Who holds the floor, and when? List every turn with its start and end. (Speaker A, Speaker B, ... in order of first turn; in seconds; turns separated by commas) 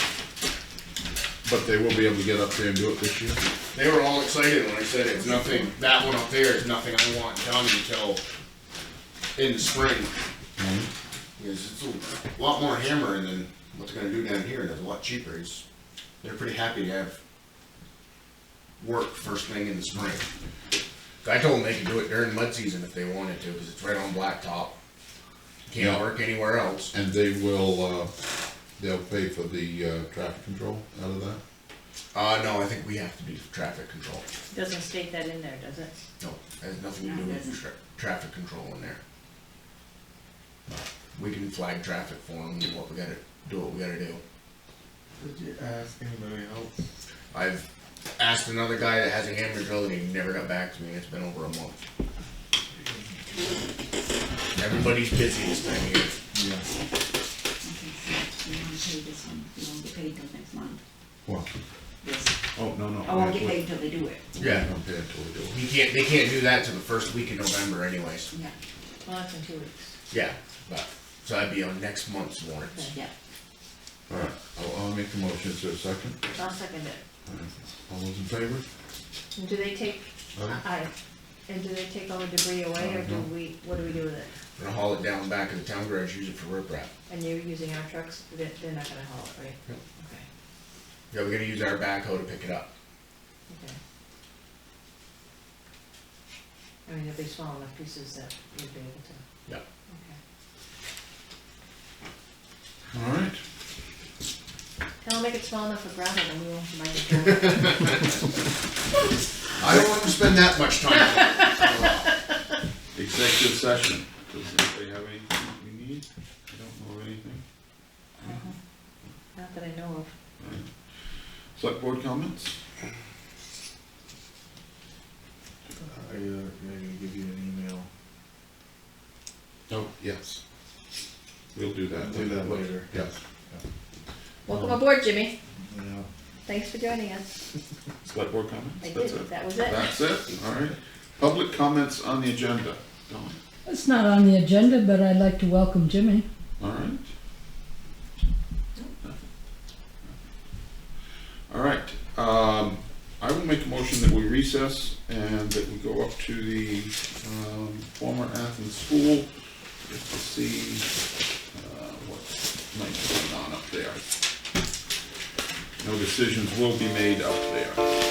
Speaker A: 1.4-3.4, Speaker B: 3.7-8.2, Speaker B: 9.4-10.1, Speaker A: 10.6-10.9, Speaker B: 11.4-15.6, Speaker B: 16.2-17.2, Speaker B: 18.8-20.2, Speaker B: 21.2-24.7, Speaker B: 25.7-26.9, Speaker A: 25.8-26.0, Speaker A: 26.9-28.1, Speaker A: 28.8-31.4, Speaker B: 32.1-34.2, Speaker C: 34.5-35.9, Speaker B: 36.2-39.0, Speaker D: 37.0-37.6, Speaker B: 41.1-44.2, Speaker E: 45.2-46.7, Speaker B: 47.3-47.6, Speaker B: 48.2-51.8, Speaker E: 52.8-53.2, Speaker B: 54.6-56.2, Speaker E: 56.3-56.7, Speaker D: 57.6-60.8, Speaker D: 62.0-62.3, Speaker A: 62.5-63.6, Speaker D: 63.0-64.2, Speaker A: 64.3-65.6, Speaker B: 64.4-64.7, Speaker B: 65.5-68.3, Speaker C: 69.0-69.9, Speaker B: 70.1-72.9, Speaker A: 74.1-76.2, Speaker C: 76.3-77.0, Speaker A: 77.3-78.7, Speaker C: 79.3-80.9, Speaker A: 80.4-80.6, Speaker C: 81.5-84.3, Speaker A: 82.8-83.3, Speaker B: 84.6-86.9, Speaker C: 87.1-90.3, Speaker B: 91.1-92.7, Speaker C: 93.5-93.8, Speaker C: 96.8-99.2, Speaker C: 99.9-100.2, Speaker A: 102.9-103.4, Speaker C: 105.0-107.9, Speaker B: 107.5-107.9, Speaker B: 109.6-112.0, Speaker A: 112.9-117.4, Speaker C: 118.2-118.5, Speaker C: 119.3-120.1, Speaker A: 120.4-120.7, Speaker A: 121.5-122.5, Speaker E: 125.8-127.9, Speaker A: 129.7-130.4, Speaker A: 131.5-133.1, Speaker E: 132.0-133.6, Speaker C: 134.5-135.3, Speaker E: 135.6-136.1, Speaker C: 136.5-137.3, Speaker A: 138.1-143.4, Speaker C: 138.8-140.0, Speaker F: 143.7-146.3, Speaker A: 146.6-147.0, Speaker A: 151.5-159.3, Speaker A: 159.9-160.9, Speaker A: 161.5-164.0, Speaker A: 165.8-167.8